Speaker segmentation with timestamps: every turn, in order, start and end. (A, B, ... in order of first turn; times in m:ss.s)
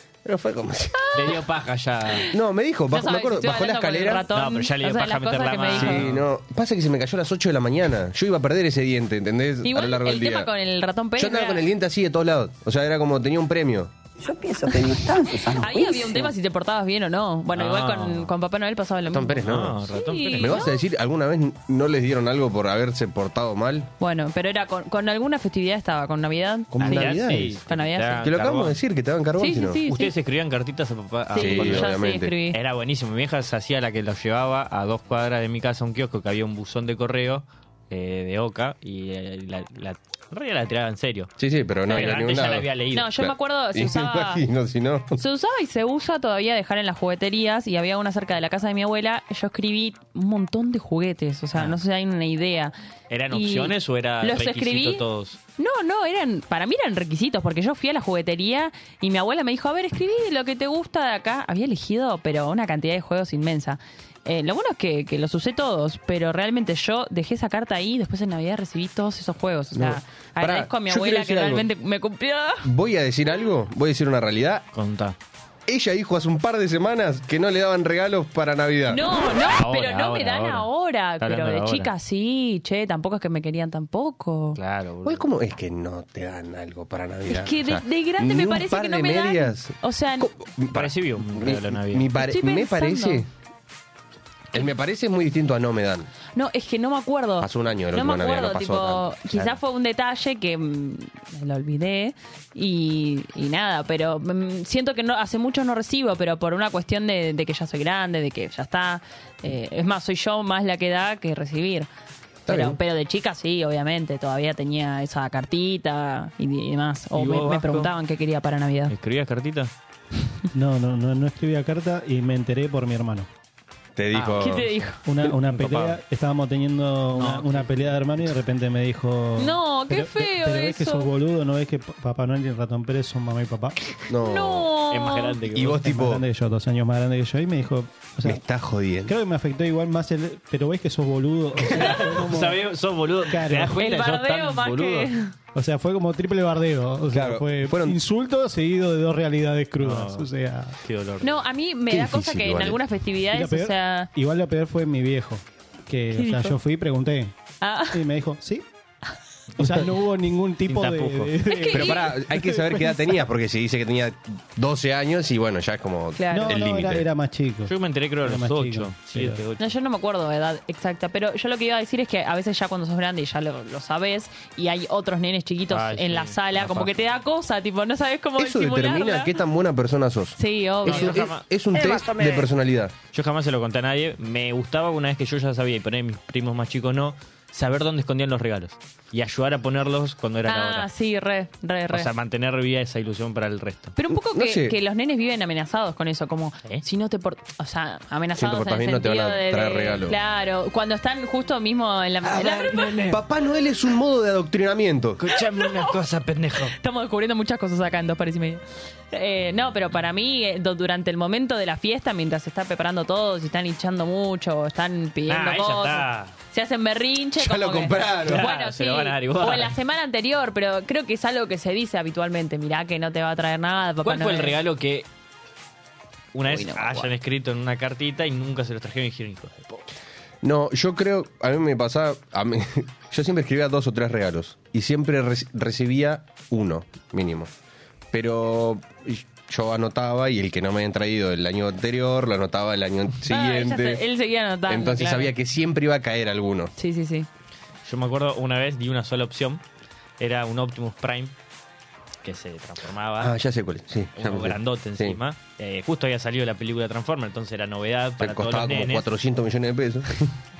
0:00.2-0:01.1 A
0:00.9-0:01.4 B
0:01.1-0:02.3 C
0:02.3-0:04.2 A
0:02.9-0:06.0 B
0:04.3-0:06.2 C
0:05.7-0:10.5 A
0:09.6-0:11.6 B
0:11.2-0:13.9 A
0:14.2-0:16.3 D
0:15.4-0:20.8 B
0:17.5-0:18.3 C
0:19.1-0:23.9 A
0:19.4-0:20.6 C
0:24.0-0:28.3 B
0:26.7-0:27.6 A
0:26.8-0:28.8 C
0:28.2-0:29.8 A
0:29.4-0:30.1 B
0:29.9-0:31.9 C
0:31.3-0:32.6 B
0:31.4-0:32.3 A
0:32.5-0:41.3 C
0:41.4-0:45.2 A
0:41.9-0:42.2 B
0:41.9-0:43.2 C
0:42.9-0:44.4 B
0:45.2-0:52.7 B
0:53.1-0:55.4 C
0:53.3-0:55.0 B
0:55.6-1:12.7 B
1:09.7-1:11.7 A
1:12.6-1:14.6 A
1:14.7-1:15.2 C
1:15.7-1:19.0 A
1:18.9-1:24.6 B
1:19.4-1:20.7 C
1:21.2-1:21.9 C
1:24.6-1:25.2 C
1:25.0-1:33.3 A
1:27.3-1:30.3 B
1:30.7-1:32.1 C
1:32.1-1:33.2 B
1:34.5-1:36.1 A
1:36.4-1:51.9 B
1:37.4-1:39.1 A
1:52.5-1:52.8 A
1:52.5-1:58.9 B
1:57.1-1:57.9 C
1:58.9-1:59.7 C
2:00.5-2:03.3 E
2:04.0-2:04.7 A
2:04.1-2:04.6 C
2:04.4-2:05.0 B
2:05.0-2:13.8 E
2:05.2-2:06.0 C
2:07.1-2:07.7 C
2:09.4-2:11.1 B
2:14.1-2:14.7 A
2:14.2-2:15.4 B
2:14.9-2:15.8 C
2:15.5-2:16.2 A
2:15.8-2:18.4 E
2:18.2-2:19.2 A
2:19.0-2:22.7 E
2:21.6-2:25.1 C
2:23.3-2:23.8 E
2:23.8-2:25.3 B
2:25.5-2:30.8 E
2:27.1-2:28.0 A
2:29.8-2:30.3 C
2:30.8-2:31.4 C
2:31.2-2:34.1 B
2:31.9-2:32.8 A
2:33.3-2:37.4 E
2:36.1-2:36.6 B
2:37.6-2:38.0 B
2:37.9-2:38.6 E
2:39.6-2:43.0 E
2:39.6-2:39.9 C
2:40.6-2:41.4 C
2:41.5-2:42.1 B
2:41.7-2:47.0 A
2:46.2-2:46.6 B
2:46.3-2:49.4 E
2:47.6-2:49.7 C
2:49.6-2:59.4 B
2:55.7-2:57.0 C
2:58.4-3:02.9 A
3:00.4-3:01.3 B
3:00.8-3:02.4 C
3:03.1-3:10.9 C
3:10.5-3:12.1 B
3:11.9-3:13.9 C
3:14.0-3:23.0 B
3:14.1-3:14.8 A
3:18.4-3:20.2 A
3:22.2-3:23.2 C
3:23.0-3:25.2 A
3:25.2-3:26.7 C
3:25.6-3:26.0 B
3:26.7-3:44.6 B
3:35.3-3:36.3 C
3:37.4-3:38.5 A
3:38.2-3:39.8 C
3:44.0-3:45.0 C
3:46.3-3:49.8 C
3:46.4-3:47.1 B
3:50.4-3:57.5 A
3:58.1-4:04.0 A
4:03.3-4:05.3 B
4:04.7-4:06.7 A
4:06.8-4:07.3 B
4:07.8-4:09.6 C
4:10.2-4:11.3 C
4:12.2-4:13.4 C
4:13.2-4:15.2 A
4:14.2-4:19.1 C
4:18.2-4:20.3 A